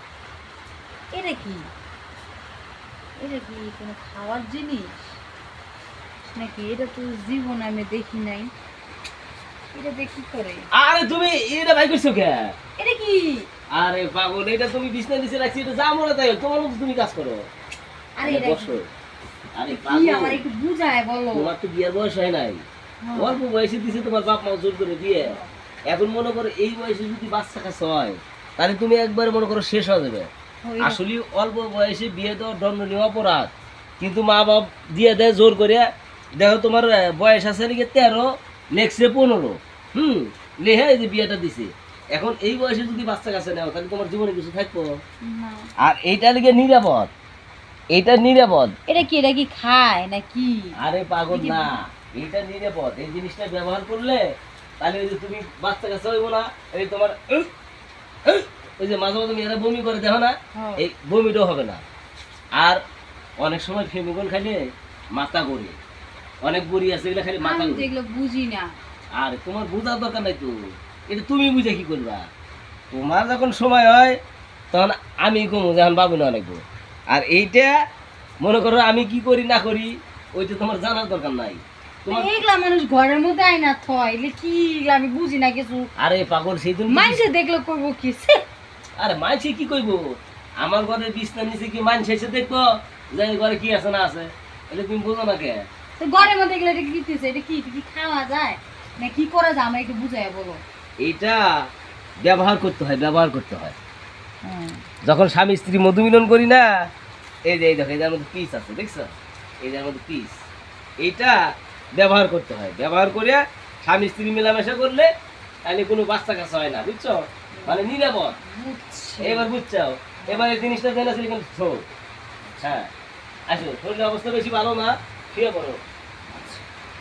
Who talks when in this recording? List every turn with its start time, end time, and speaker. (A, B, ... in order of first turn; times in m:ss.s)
0:01.1-0:01.7 A
0:03.2-0:05.1 A
0:06.3-0:08.5 A
0:09.7-0:10.7 A
0:10.7-0:12.6 B
0:12.8-0:13.5 A
0:13.7-0:17.5 B
0:18.2-0:18.8 A
0:18.2-0:18.9 B
0:19.6-0:20.5 B
0:19.7-0:21.5 A
0:21.3-0:22.6 B
0:23.0-0:23.4 A
0:23.2-0:25.4 B
0:25.9-0:30.3 B
0:30.6-0:31.0 A
0:30.8-0:44.9 B
0:45.2-0:45.7 A
0:45.8-0:47.1 B
0:47.9-0:48.8 B
0:48.9-0:50.8 A
0:50.8-0:57.5 B
0:51.3-0:51.8 A
0:58.2-1:01.8 B
1:00.5-1:00.9 A
1:02.6-1:02.8 B
1:03.4-1:04.6 B
1:05.1-1:05.8 B
1:06.4-1:07.9 B
1:07.4-1:08.8 A
1:09.2-1:10.6 B
1:11.1-1:12.2 B
1:12.9-1:14.2 B
1:14.7-1:17.7 B
1:18.4-1:22.3 B
1:22.1-1:25.9 A
1:26.0-1:27.2 B
1:26.9-1:28.4 A
1:29.0-1:35.7 B
1:36.0-1:40.6 A
1:41.0-1:41.6 B
1:42.2-1:43.8 B
1:44.4-1:44.8 A
1:45.0-1:46.9 B
1:47.5-1:50.4 B
1:51.0-1:51.4 B
1:52.0-1:55.1 B
1:55.6-1:58.4 B
1:57.6-1:59.5 A
1:59.2-2:01.9 B
2:00.2-2:00.6 A
2:02.4-2:02.8 A
2:02.6-2:02.9 B
2:03.5-2:05.8 B
2:06.3-2:06.6 A